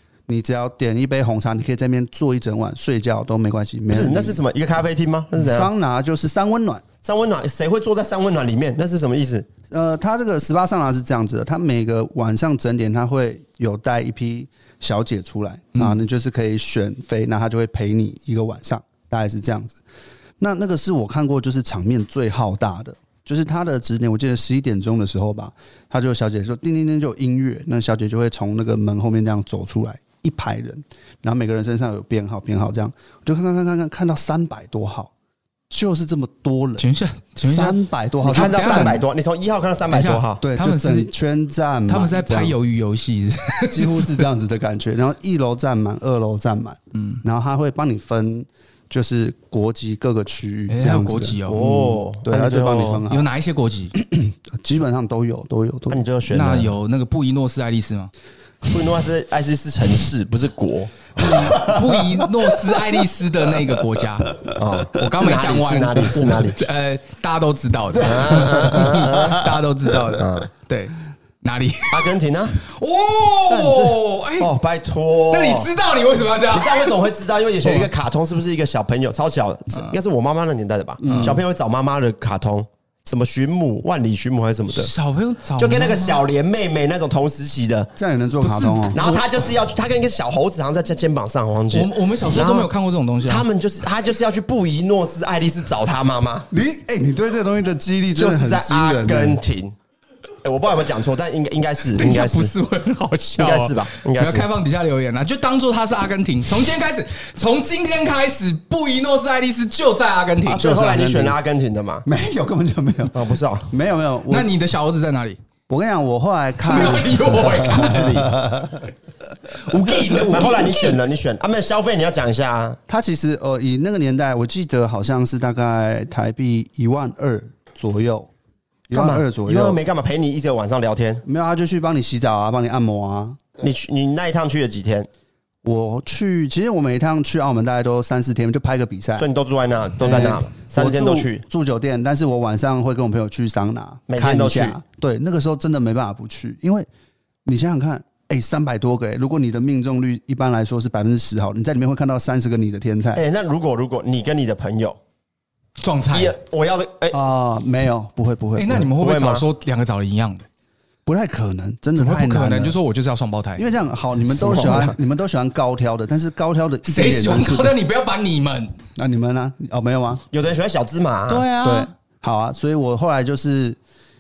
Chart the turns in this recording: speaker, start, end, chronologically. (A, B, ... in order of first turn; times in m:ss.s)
0:00.3-0:04.4 A
0:03.9-0:05.7 B
0:05.4-0:06.8 A
0:07.0-0:09.5 B
0:09.7-0:19.8 A
0:20.4-0:35.1 A
0:35.7-0:36.8 A
0:36.8-0:39.0 C
0:37.4-0:39.0 A
0:38.2-0:40.4 B
0:39.9-0:41.1 C
0:40.4-0:42.6 A
0:41.9-0:44.2 C
0:43.7-0:53.3 A
0:46.9-0:47.2 C
0:50.7-0:51.7 C
0:51.5-0:53.0 B
0:53.1-0:53.9 C
0:54.0-0:56.0 A
0:55.9-0:56.7 B
0:56.3-0:58.1 C
0:58.7-1:01.8 B
1:01.2-1:04.4 C
1:04.5-1:06.6 B
1:05.0-1:14.5 C
1:08.0-1:09.5 B
1:10.2-1:10.5 B
1:11.9-1:12.6 B
1:14.4-1:15.7 B
1:15.3-1:17.0 C
1:16.5-1:24.9 B
1:17.6-1:17.9 C
1:21.0-1:21.4 A
1:21.1-1:21.4 C
1:24.7-1:26.2 C
1:25.6-1:27.9 B
1:28.0-1:29.2 A
1:28.4-1:29.0 C
1:28.9-1:32.7 B
1:31.7-1:33.5 C
1:33.2-1:36.5 B
1:36.5-1:39.4 A
1:38.2-1:39.8 B
1:40.4-1:42.5 B
1:42.0-1:50.7 C
1:43.4-1:44.5 B
1:50.4-1:52.1 B
1:50.6-1:51.4 A
1:52.1-1:54.5 A
1:53.1-1:53.7 B
1:54.3-1:55.4 C
1:55.7-1:58.8 A
1:56.6-1:58.2 C
1:57.7-1:58.4 B
1:59.5-2:01.0 C
2:00.3-2:02.8 B
2:02.9-2:08.3 A
2:08.9-2:09.8 A
2:08.9-2:11.2 B
2:11.2-2:13.4 A
2:13.6-2:15.1 B
2:15.6-2:19.3 A
2:19.2-2:21.4 B
2:20.0-2:26.9 A
2:24.1-2:24.8 B
2:27.4-2:33.2 A
2:33.2-2:35.0 B
2:35.8-2:36.4 C
2:36.1-2:37.2 B
2:37.1-2:38.9 A
2:38.6-2:40.5 C
2:39.0-2:39.5 B
2:41.1-2:42.8 A
2:42.0-2:43.7 C
2:43.6-2:47.7 A
2:44.4-2:44.9 B
2:44.5-2:44.8 C
2:46.9-2:48.8 C
2:49.0-2:50.2 A
2:50.3-2:51.5 B
2:51.3-2:51.9 C
2:51.6-2:53.8 A